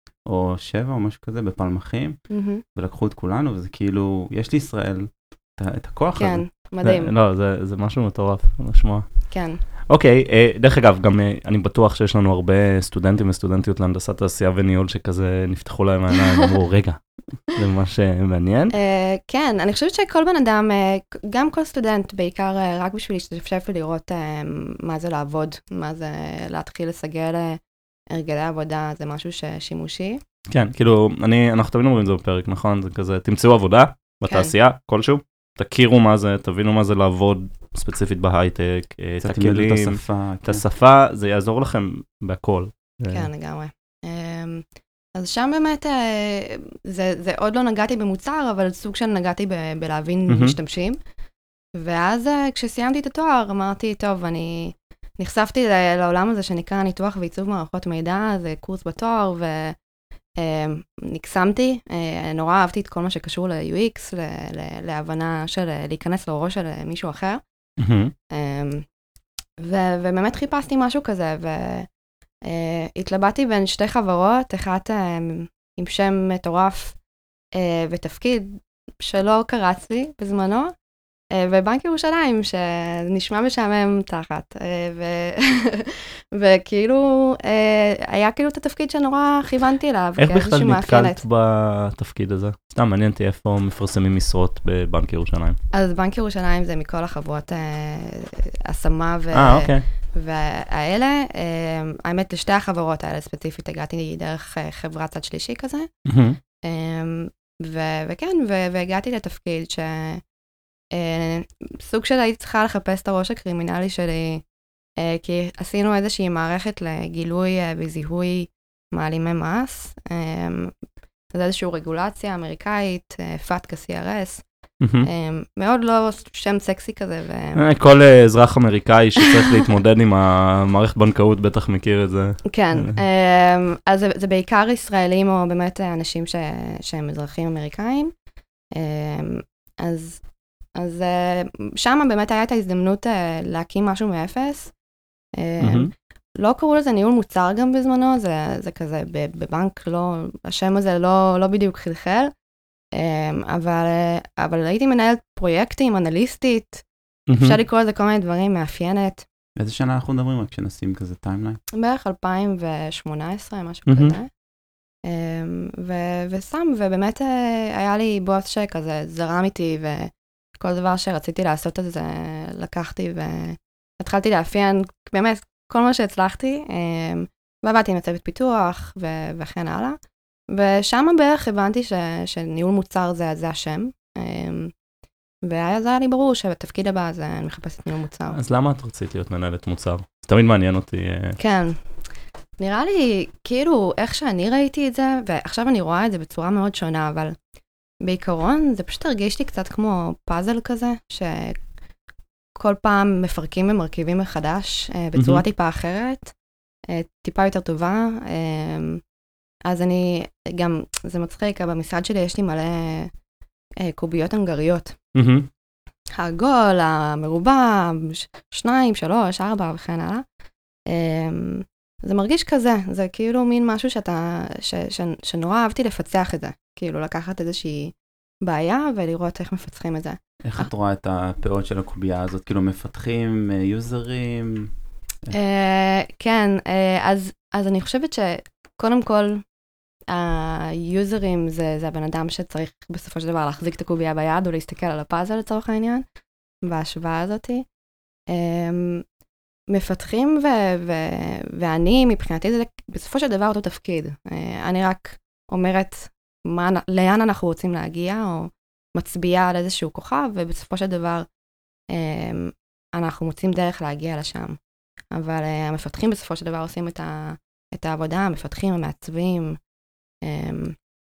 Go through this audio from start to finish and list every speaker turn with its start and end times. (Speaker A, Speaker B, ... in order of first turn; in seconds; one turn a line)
Speaker A: 0.2-2.2
Speaker B: 2.3-2.6
Speaker A: 2.7-6.4
Speaker B: 6.2-7.1
Speaker C: 6.8-9.3
Speaker B: 9.3-9.6
Speaker C: 9.9-18.7
Speaker B: 18.7-30.2
Speaker C: 30.5-43.3
Speaker B: 34.3-34.5
Speaker A: 39.2-40.6
Speaker B: 43.1-51.0
Speaker C: 50.3-50.5
Speaker B: 51.7-59.8
Speaker B: 60.4-67.4
Speaker C: 67.8-68.1
Speaker B: 68.3-68.8
Speaker B: 69.6-71.9
Speaker B: 72.4-77.0
Speaker B: 77.5-80.7
Speaker B: 81.3-91.2
Speaker C: 90.2-95.6
Speaker B: 95.7-105.9
Speaker C: 99.3-99.8
Speaker C: 106.1-106.4
Speaker B: 106.6-110.2
Speaker B: 110.9-114.4
Speaker B: 115.0-120.7
Speaker B: 121.3-124.4
Speaker C: 124.8-125.1
Speaker B: 125.0-127.6
Speaker C: 127.5-132.9
Speaker B: 132.4-138.1
Speaker B: 138.7-140.2
Speaker B: 140.8-144.7
Speaker B: 145.4-152.3
Speaker C: 145.6-145.9
Speaker B: 152.9-156.8
Speaker C: 157.3-157.6
Speaker B: 157.4-159.2
Speaker A: 159.6-161.6
Speaker B: 161.7-164.3
Speaker C: 163.9-164.1
Speaker B: 165.0-180.0
Speaker B: 180.5-184.7
Speaker B: 185.4-188.4
Speaker C: 188.3-191.4
Speaker B: 191.4-191.8
Speaker B: 192.6-197.3
Speaker B: 198.0-201.6
Speaker B: 202.6-206.3
Speaker C: 205.2-205.4
Speaker B: 206.9-209.0
Speaker B: 209.6-213.1
Speaker B: 213.8-214.9
Speaker C: 215.1-215.5
Speaker B: 216.2-220.2
Speaker B: 220.9-230.7
Speaker A: 230.4-234.7
Speaker B: 235.3-239.4
Speaker B: 240.1-246.0
Speaker B: 246.6-247.7
Speaker B: 248.3-249.0
Speaker B: 249.7-261.3
Speaker B: 261.9-264.6
Speaker B: 265.1-269.6
Speaker B: 270.2-270.8